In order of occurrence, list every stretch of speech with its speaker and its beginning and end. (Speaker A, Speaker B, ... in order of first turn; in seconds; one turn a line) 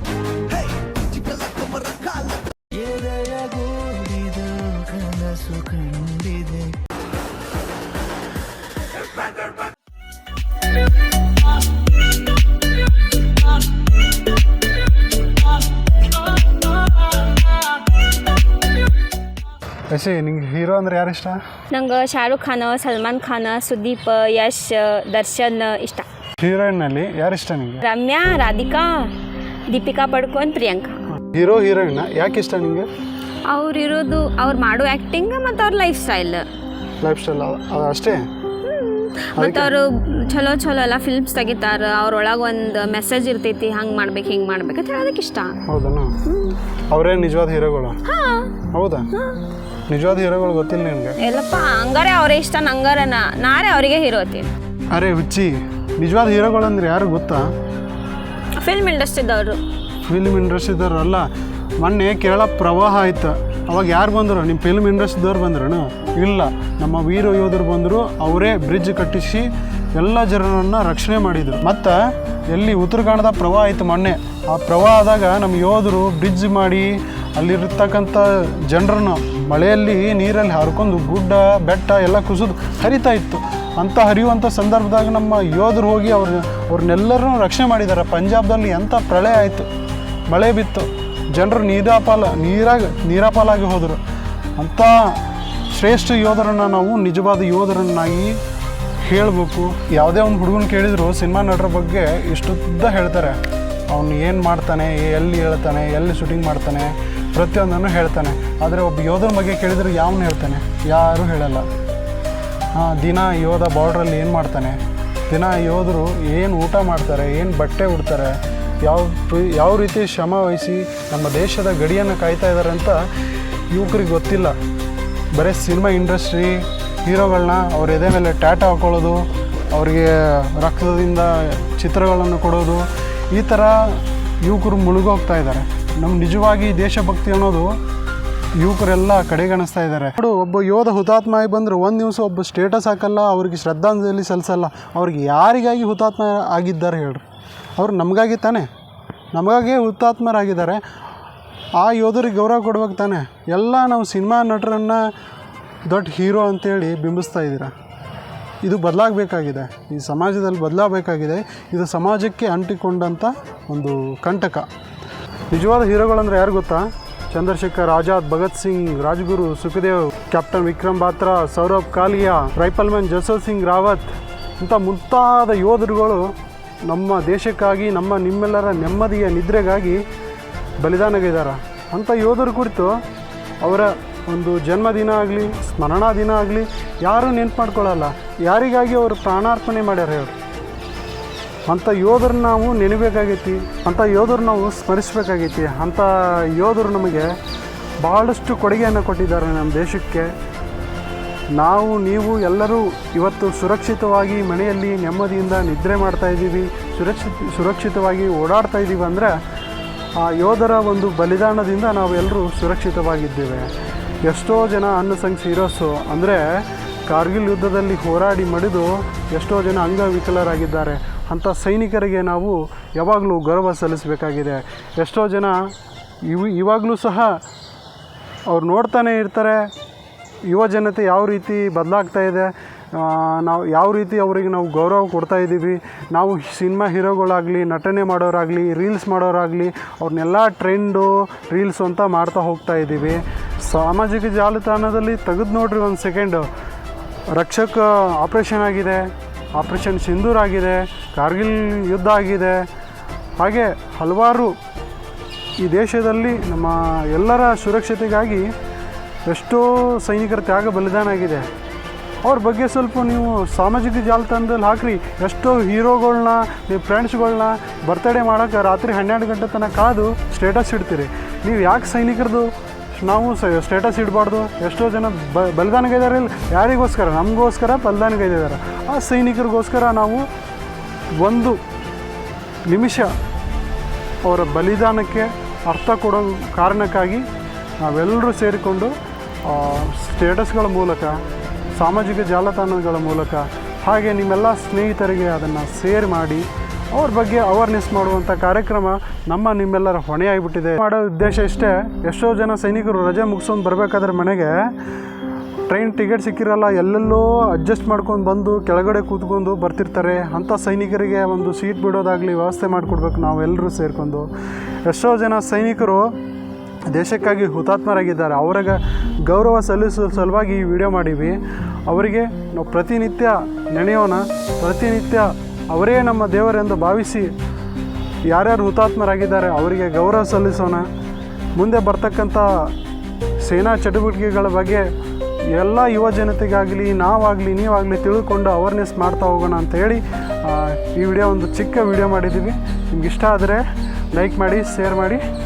Speaker A: 0.5-6.8
Speaker B: 15.5-17.6
Speaker C: 19.9-21.4
Speaker B: 21.7-26.1
Speaker C: 26.4-27.8
Speaker B: 27.8-29.1
Speaker B: 29.7-31.0
Speaker C: 31.3-32.9
Speaker B: 33.5-36.5
Speaker C: 37.0-38.3
Speaker B: 38.6-45.6
Speaker C: 39.4-39.7
Speaker C: 45.7-46.1
Speaker B: 46.3-46.6
Speaker C: 46.9-48.0
Speaker B: 48.0-49.4
Speaker C: 48.7-49.1
Speaker C: 49.9-51.2
Speaker B: 51.2-54.5
Speaker C: 54.9-57.5
Speaker B: 58.6-59.6
Speaker C: 60.1-61.3
Speaker C: 61.8-89.7
Speaker C: 90.3-94.0
Speaker C: 94.6-98.4
Speaker C: 99.0-111.7
Speaker C: 112.8-123.0
Speaker C: 123.7-124.6
Speaker C: 125.3-137.8
Speaker C: 138.6-147.2
Speaker C: 147.8-148.7
Speaker C: 149.3-150.8
Speaker C: 151.8-155.1
Speaker C: 155.9-157.7
Speaker C: 158.6-164.7
Speaker C: 165.5-176.3
Speaker C: 176.9-180.0
Speaker C: 180.8-183.0
Speaker C: 183.6-190.4
Speaker C: 191.7-197.3
Speaker C: 198.0-200.3
Speaker C: 201.6-209.4
Speaker C: 210.2-213.7
Speaker C: 214.2-225.6
Speaker C: 226.2-227.4
Speaker C: 228.5-229.7
Speaker C: 230.5-246.5
Speaker C: 247.3-252.7
Speaker C: 253.4-254.6
Speaker C: 255.6-258.5
Speaker C: 259.3-261.5
Speaker C: 262.2-280.2
Speaker C: 281.2-281.6
Speaker C: 282.7-283.1
Speaker C: 284.2-287.2
Speaker C: 287.8-288.9
Speaker C: 289.4-291.2
Speaker C: 291.8-304.8
Speaker C: 305.7-314.3
Speaker C: 314.9-316.1
Speaker C: 316.9-327.3
Speaker C: 328.3-330.9
Speaker C: 331.6-332.7
Speaker C: 333.4-334.9
Speaker C: 335.5-345.2